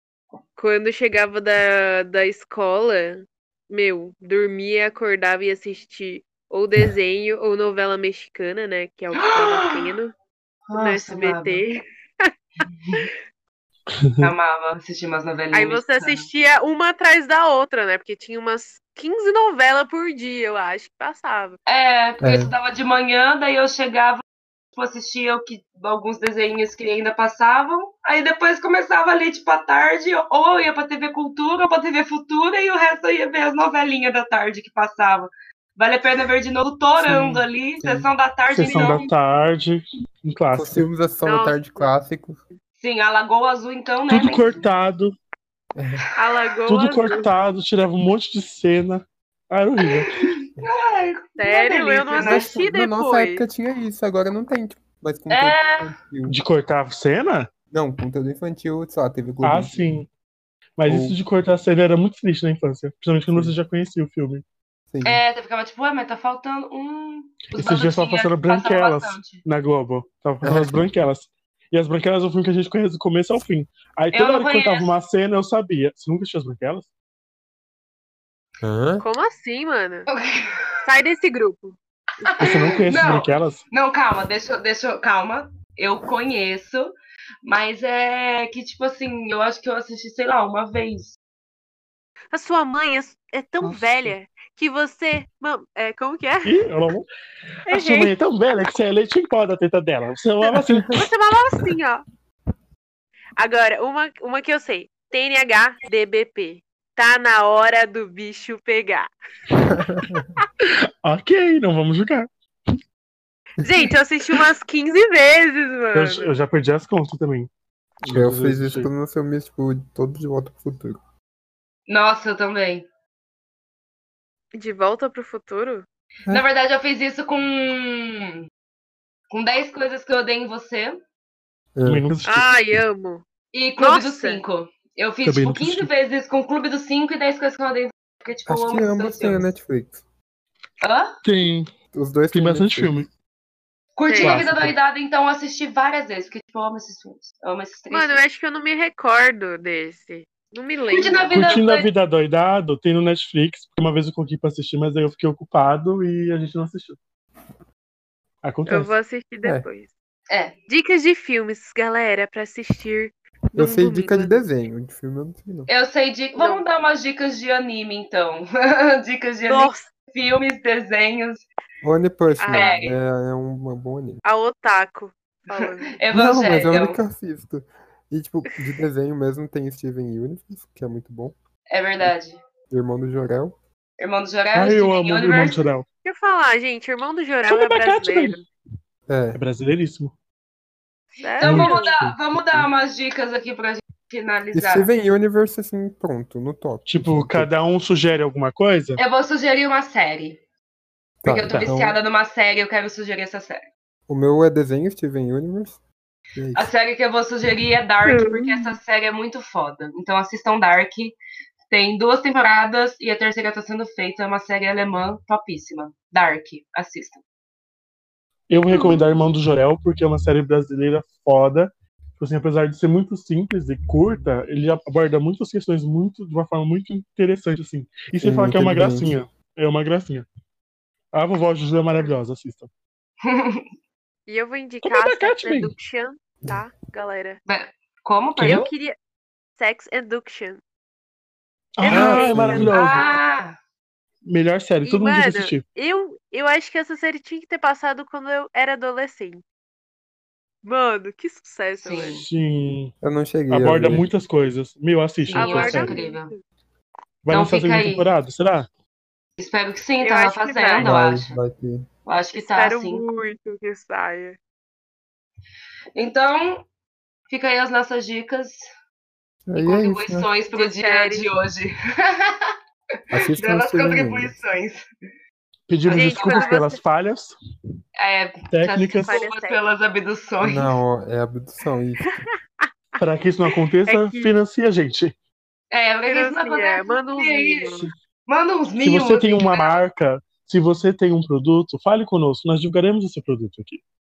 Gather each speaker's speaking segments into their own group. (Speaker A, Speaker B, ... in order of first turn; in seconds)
Speaker A: 0.6-10.1, 10.8-12.3, 15.5-21.6, 41.2-41.9, 46.1-47.3, 51.4-53.4, 79.0-80.1, 80.8-81.8, 92.3-96.6, 97.7-98.1, 100.8-102.0, 103.4-109.1, 113.6-116.3, 124.5-125.8, 132.2-133.2, 133.8-134.4, 144.1-144.4, 147.9-151.3, 158.7-159.9, 160.7-164.5, 166.4-166.7, 169.5-169.9, 172.4-172.8, 174.2-176.0, 186.1-188.5, 191.2-191.9, 208.0-208.8, 218.7-219.1, 234.3-237.4, 238.5-239.0, 239.6-240.6, 241.8-243.1, 244.8-249.4, 250.6-252.2, 255.3-256.4, 260.0-261.0, 262.4-264.4, 270.5-271.3, 275.9-276.8, 279.0-279.6, 282.0-282.7, 283.9-284.4, 286.1-287.9
Speaker B: 9.2-9.9, 10.7-11.6, 12.7-13.1, 14.2-16.3, 21.7-24.2, 24.8-39.1, 42.8-44.7, 49.8-52.5, 55.3-55.9, 65.0-69.4, 74.1-74.9, 80.1-80.8, 82.2-91.2, 121.9-122.9, 126.3-128.5, 129.3-131.0, 133.5-139.5, 140.8-141.1, 144.0-148.2, 150.9-151.9, 160.3-160.6, 165.7-171.4, 172.5-173.0, 175.6-177.0, 181.7-182.4, 184.0-185.7, 191.4-194.9, 199.0-200.4, 201.2-203.7, 206.6-211.2, 211.7-217.2, 233.2-233.7, 237.5-238.7, 242.7-243.6, 251.8-252.2, 255.3-256.3, 257.3-258.1, 259.4-261.4, 262.1-263.0, 266.0-266.6, 267.3-268.7, 269.6-272.5, 273.3-274.9, 275.9-276.6, 278.0-280.8, 285.7-289.8
Speaker C: 14.0-14.3, 37.0-37.4, 38.5-40.9, 44.1-45.1, 46.7-50.3, 56.3-57.5, 59.4-60.1, 60.8-64.4, 67.5-76.9, 82.4-83.6, 93.6-94.1, 96.4-97.1, 97.7-101.1, 110.6-112.3, 115.9-117.5, 118.0-118.9, 131.8-132.5, 135.2-135.9, 141.2-141.7, 142.3-143.1, 144.2-144.7, 151.3-157.0, 158.4-158.9, 184.5-185.8, 187.5-188.4, 189.3-190.1, 191.4-192.2, 196.9-199.0, 218.5-230.3, 231.1-232.7, 234.8-235.7, 238.4-238.7, 241.8-243.1, 244.3-245.6, 252.1-252.9, 253.5-256.0, 257.2-258.7, 275.7-277.4, 278.5-279.2, 283.0-285.1, 288.8-293.8
Speaker D: 22.2-22.5, 37.8-38.1, 40.5-42.4, 45.8-46.1, 52.2-56.4, 57.7-59.9, 60.9-61.2, 64.9-65.2, 70.4-70.8, 78.6-79.0, 109.7-110.3, 118.0-121.0, 131.8-132.1, 138.5-140.0, 141.9-143.0, 163.6-165.7, 171.8-174.2, 176.1-181.3, 182.7-183.6, 189.1-189.4, 192.3-192.7, 194.5-197.5, 201.2-202.0, 204.1-205.8, 206.4-206.7, 228.2-229.1, 241.9-242.7, 253.0-254.1, 260.8-261.9, 269.5-270.3, 273.1-274.4, 280.4-282.2